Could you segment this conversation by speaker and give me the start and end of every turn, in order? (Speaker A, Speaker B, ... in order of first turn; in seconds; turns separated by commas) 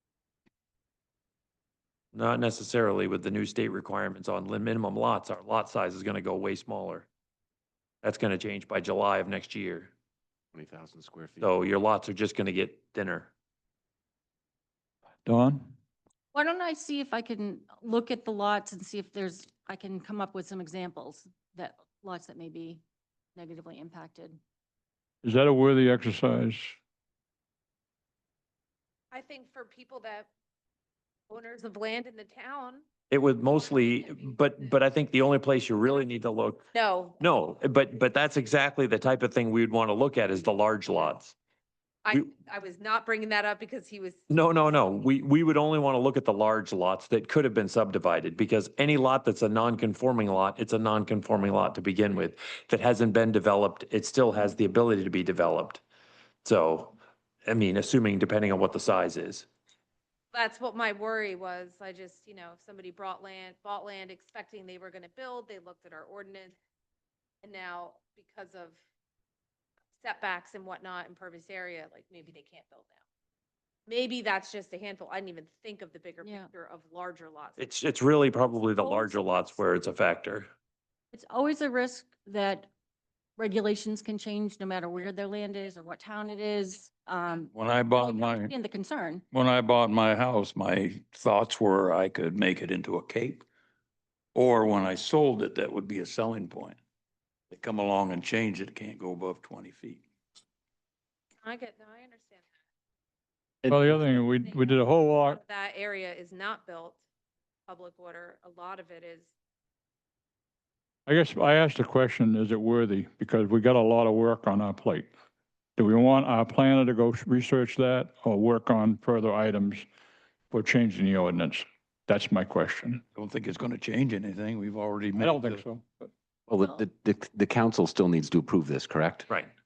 Speaker A: 2.1-7.1, Speaker A: 8.0-9.9, Speaker B: 10.5-11.5, Speaker A: 11.4-13.3, Speaker C: 15.2-15.7, Speaker D: 16.3-22.8, Speaker D: 23.4-24.4, Speaker C: 25.2-26.7, Speaker E: 29.1-30.3, Speaker E: 31.3-32.8, Speaker A: 33.1-36.6, Speaker E: 33.4-34.4, Speaker E: 36.7-37.2, Speaker A: 37.2-41.3, Speaker E: 42.0-44.2, Speaker A: 44.3-55.8, Speaker A: 56.4-59.5, Speaker E: 60.3-66.5, Speaker E: 67.4-68.8, Speaker E: 70.0-73.0, Speaker E: 73.9-77.6, Speaker D: 76.2-76.5, Speaker A: 77.6-80.5, Speaker D: 81.1-82.7, Speaker D: 83.4-89.2, Speaker F: 87.5-88.5, Speaker F: 89.3-93.4, Speaker F: 94.3-96.8, Speaker F: 97.5-100.0, Speaker E: 101.4-102.5, Speaker B: 103.6-104.2, Speaker C: 103.7-105.4, Speaker E: 104.4-104.7, Speaker E: 105.2-107.0, Speaker E: 107.7-109.3, Speaker C: 111.1-115.1, Speaker C: 115.8-119.8, Speaker C: 120.5-123.0, Speaker F: 123.1-125.6, Speaker C: 125.2-126.1, Speaker B: 126.5-129.3